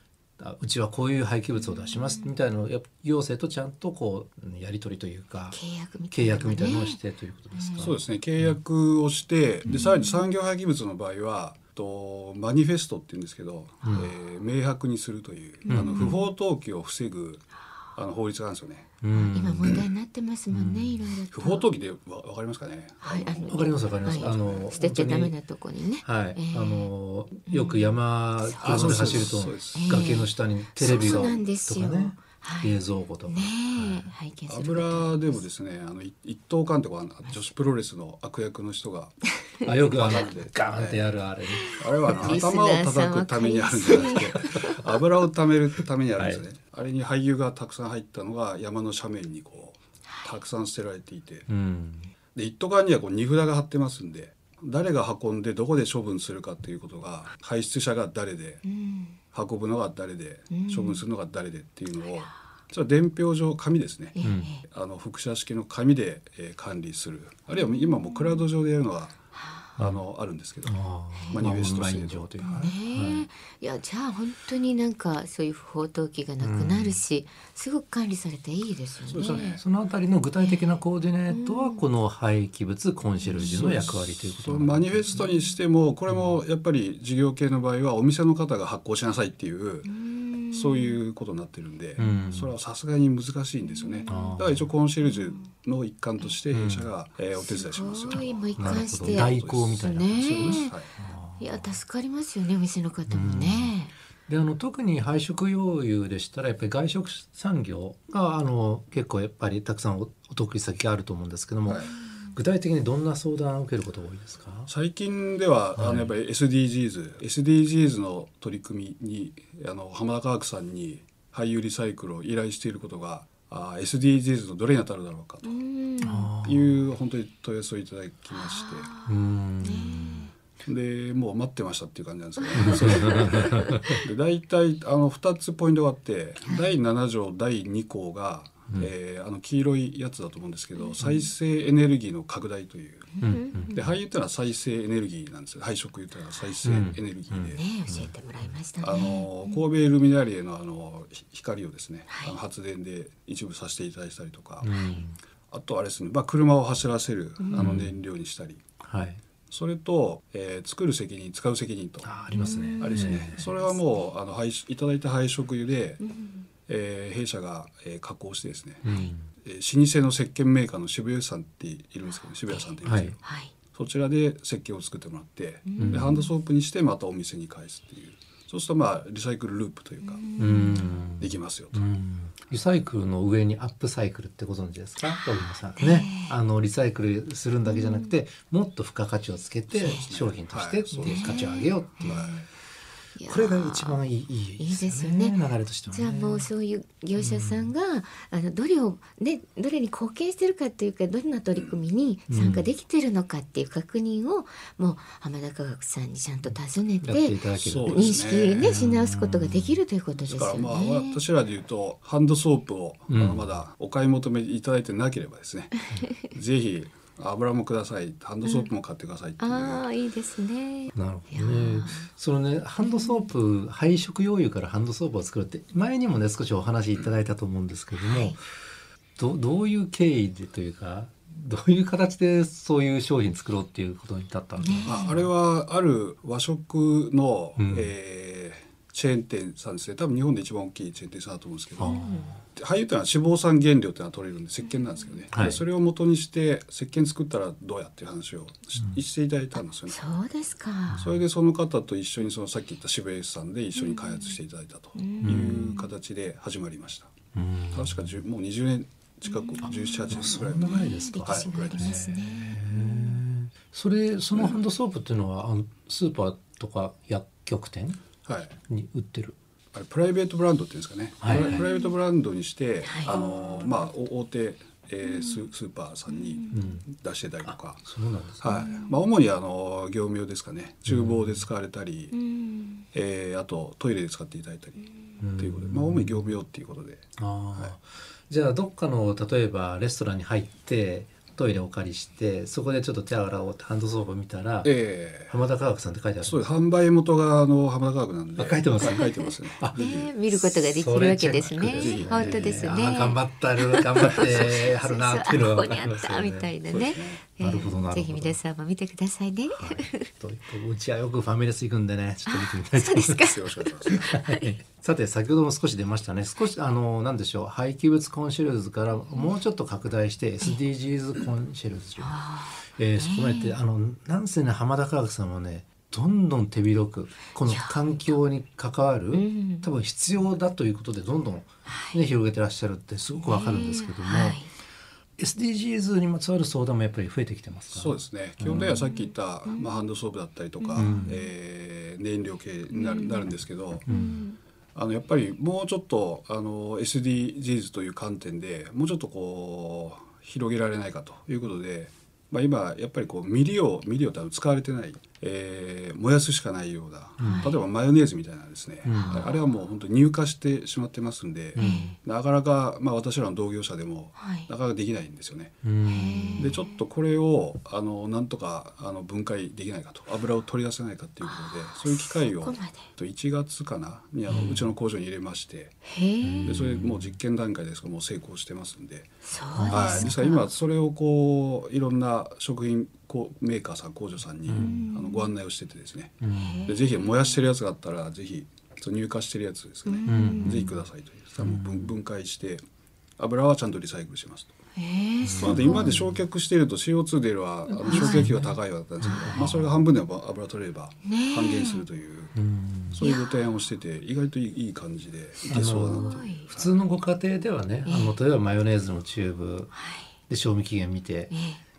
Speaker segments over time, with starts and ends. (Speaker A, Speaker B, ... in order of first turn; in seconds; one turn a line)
Speaker A: 0.4-5.6
Speaker B: 1.8-2.3
Speaker B: 5.5-7.0
Speaker A: 6.1-8.6
Speaker B: 7.5-7.9
Speaker C: 7.8-18.9
Speaker B: 9.7-10.2
Speaker A: 13.8-14.1
Speaker B: 15.6-16.2
Speaker A: 15.7-16.2
Speaker A: 19.0-19.9
Speaker B: 19.1-21.6
Speaker A: 20.5-21.1
Speaker C: 21.3-24.7
Speaker B: 23.0-26.9
Speaker A: 23.5-25.3
Speaker A: 26.0-34.1
Speaker B: 27.4-32.8
Speaker C: 28.6-30.0
Speaker C: 30.9-31.4
Speaker B: 33.3-35.4
Speaker C: 34.5-41.1
Speaker A: 39.6-42.4
Speaker B: 41.5-44.9
Speaker C: 41.8-51.5
Speaker A: 44.1-44.6
Speaker A: 46.1-46.4
Speaker A: 51.5-52.1
Speaker C: 52.3-58.6
Speaker B: 58.6-59.1
Speaker C: 59.3-69.2
Speaker B: 60.5-61.0
Speaker B: 64.1-64.6
Speaker A: 64.2-64.5
Speaker B: 67.5-68.3
Speaker B: 69.3-69.6
Speaker C: 69.8-72.7
Speaker A: 70.6-73.3
Speaker B: 71.1-71.4
Speaker B: 72.4-79.6
Speaker A: 76.4-77.0
Speaker C: 79.0-79.6
Speaker A: 79.2-85.2
Speaker B: 80.4-80.7
Speaker B: 81.3-81.8
Speaker B: 83.2-83.7
Speaker C: 83.3-89.9
Speaker A: 86.1-86.4
Speaker B: 89.8-91.0
Speaker C: 90.5-100.9
Speaker A: 92.0-92.5
Speaker B: 93.7-94.4
Speaker A: 94.1-94.7
Speaker A: 96.5-96.9
Speaker B: 97.4-100.7
Speaker A: 98.5-101.8
Speaker B: 101.4-103.9
Speaker A: 103.1-103.7
Speaker A: 104.3-114.7
Speaker C: 111.7-111.9
Speaker C: 114.7-125.6
Speaker A: 115.7-116.1
Speaker B: 125.4-126.3
Speaker A: 126.0-126.8
Speaker C: 126.4-128.9
Speaker B: 128.3-130.3
Speaker A: 129.1-130.3
Speaker C: 130.6-143.2
Speaker B: 132.4-133.8
Speaker A: 132.6-134.0
Speaker B: 143.1-143.8
Speaker A: 143.2-143.9
Speaker C: 143.7-147.6
Speaker A: 146.6-148.1
Speaker B: 147.5-149.3
Speaker C: 148.8-154.7
Speaker B: 152.1-152.3
Speaker A: 154.6-155.2
Speaker B: 154.7-155.0
Speaker C: 155.5-158.6
Speaker B: 157.4-157.8
Speaker A: 157.5-158.0
Speaker A: 158.8-159.2
Speaker C: 159.5-162.2
Speaker A: 162.0-163.4
Speaker B: 162.3-164.1
Speaker C: 162.8-166.0
Speaker B: 166.0-166.4
Speaker C: 166.7-168.8
Speaker A: 168.8-169.3
Speaker B: 168.8-169.1
Speaker C: 169.4-173.2
Speaker B: 172.5-173.5
Speaker A: 172.8-173.2
Speaker C: 173.7-180.2
Speaker B: 175.6-176.3
Speaker A: 175.8-176.2
Speaker B: 180.0-181.0
Speaker A: 180.4-192.4
Speaker C: 181.2-181.8
Speaker B: 185.0-186.3
Speaker B: 187.6-188.1
Speaker B: 189.8-190.1
Speaker C: 189.9-191.5
Speaker B: 191.0-192.4
Speaker C: 192.1-192.4
Speaker B: 193.2-194.0
Speaker A: 193.3-196.5
Speaker B: 194.6-195.4
Speaker B: 195.9-211.2
Speaker A: 197.2-197.7
Speaker A: 202.3-202.7
Speaker A: 207.0-209.8
Speaker C: 207.6-208.8
Speaker C: 210.2-219.8
Speaker A: 213.1-213.5
Speaker B: 218.4-218.7
Speaker B: 219.4-222.1
Speaker A: 220.9-228.4
Speaker B: 222.8-223.3
Speaker B: 227.9-228.4
Speaker A: 229.2-235.3
Speaker B: 234.6-235.2
Speaker C: 234.8-242.0
Speaker A: 237.6-237.9
Speaker A: 241.8-242.4
Speaker B: 241.8-242.3
Speaker C: 242.5-250.1
Speaker A: 245.3-245.6
Speaker B: 249.9-251.0
Speaker A: 250.9-251.2
Speaker C: 251.0-257.1
Speaker B: 253.8-254.3
Speaker B: 254.9-255.9
Speaker A: 255.2-255.7
Speaker A: 257.3-258.2
Speaker C: 257.7-262.0
Speaker B: 259.3-263.2
Speaker A: 259.7-269.4
Speaker C: 268.2-268.5
Speaker C: 269.7-277.8
Speaker A: 271.2-271.6
Speaker B: 271.3-271.9
Speaker B: 272.8-273.2
Speaker B: 276.1-276.6
Speaker A: 276.5-276.8
Speaker A: 277.4-278.6
Speaker C: 278.4-282.1
Speaker B: 278.6-278.9
Speaker A: 280.9-281.5
Speaker B: 282.1-282.8
Speaker C: 282.9-284.9
Speaker A: 285.2-286.4
Speaker C: 285.4-287.0
Speaker A: 287.2-294.7
Speaker C: 294.6-295.4
Speaker A: 295.3-296.5
Speaker C: 296.2-300.1
Speaker A: 298.4-299.8
Speaker B: 299.7-310.1
Speaker A: 300.3-306.5
Speaker C: 301.4-302.7
Speaker C: 306.7-307.2
Speaker A: 307.4-308.4
Speaker A: 309.5-313.3
Speaker B: 312.3-314.5
Speaker C: 313.1-314.1
Speaker A: 313.9-322.2
Speaker B: 322.0-323.6
Speaker A: 322.7-334.4
Speaker B: 327.4-328.1
Speaker B: 329.1-329.7
Speaker B: 331.7-332.0
Speaker B: 333.2-334.5
Speaker A: 335.2-338.8
Speaker C: 337.7-343.9
Speaker B: 338.5-339.7
Speaker B: 340.6-341.1
Speaker A: 340.8-341.2
Speaker B: 342.7-343.3
Speaker A: 343.9-344.2
Speaker B: 343.9-344.4
Speaker C: 344.7-365.6
Speaker A: 357.2-357.5
Speaker B: 357.2-357.6
Speaker A: 358.8-359.3
Speaker B: 358.9-359.3
Speaker A: 361.5-361.9
Speaker B: 361.6-361.9
Speaker B: 364.2-364.5
Speaker A: 365.6-366.6
Speaker B: 365.9-366.7
Speaker C: 366.4-375.8
Speaker B: 371.2-372.9
Speaker A: 374.3-374.7
Speaker B: 375.9-376.6
Speaker A: 376.2-377.2
Speaker C: 376.4-379.1
Speaker B: 379.2-380.5
Speaker A: 379.6-380.1
Speaker C: 379.7-392.6
Speaker A: 384.4-384.9
Speaker B: 384.5-385.3
Speaker A: 386.2-386.6
Speaker B: 386.3-386.8
Speaker B: 389.9-390.6
Speaker A: 390.1-390.8
Speaker A: 391.4-392.0
Speaker C: 393.2-394.5
Speaker B: 394.8-396.0
Speaker A: 395.2-396.2
Speaker C: 395.4-402.4
Speaker B: 397.8-398.3
Speaker A: 397.9-399.8
Speaker B: 399.1-399.4
Speaker B: 401.0-401.8
Speaker A: 402.3-403.0
Speaker C: 402.9-406.7
Speaker B: 403.0-403.3
Speaker B: 405.5-406.5
Speaker A: 405.5-409.7
Speaker B: 407.8-408.1
Speaker B: 409.7-410.1
Speaker A: 410.3-411.3
Speaker B: 411.3-411.6